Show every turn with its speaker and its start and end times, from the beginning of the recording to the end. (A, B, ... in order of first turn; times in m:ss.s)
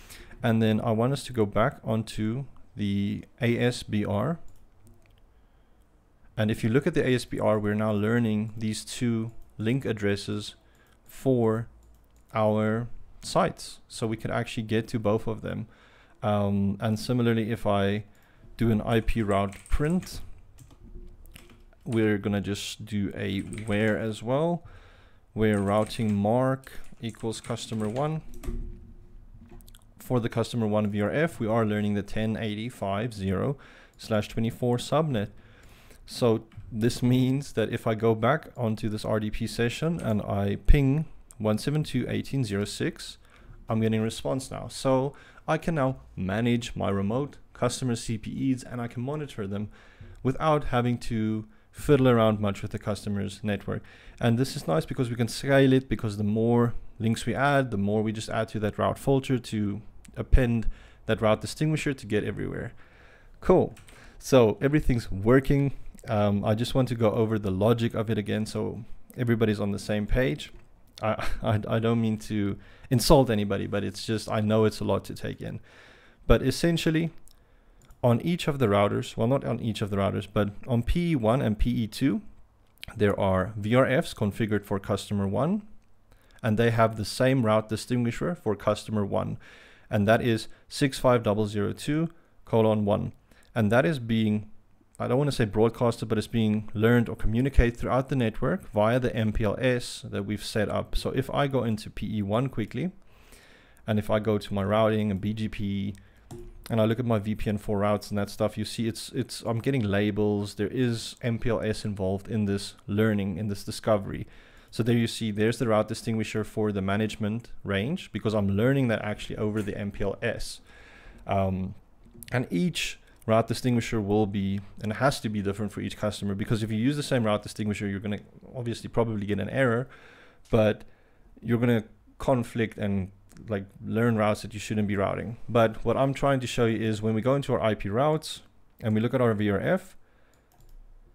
0:00.4-0:04.4 A
0:06.4-0:11.7 A
0:12.3-0:15.7 A
0:16.2-0:20.2 A
0:21.8-0:24.6 A
0:25.3-0:28.2 A
0:30.0-0:35.4 A
0:36.0-0:49.7 A
0:50.2-1:02.8 A
1:03.4-1:15.6 A
1:16.2-1:17.1 A
1:18.0-1:22.2 A
1:22.9-1:25.6 A
1:26.4-1:29.4 A
1:29.9-1:42.9 A
1:43.9-1:46.0 A
1:46.7-2:00.6 A
2:01.2-2:10.9 A
2:11.4-2:20.0 A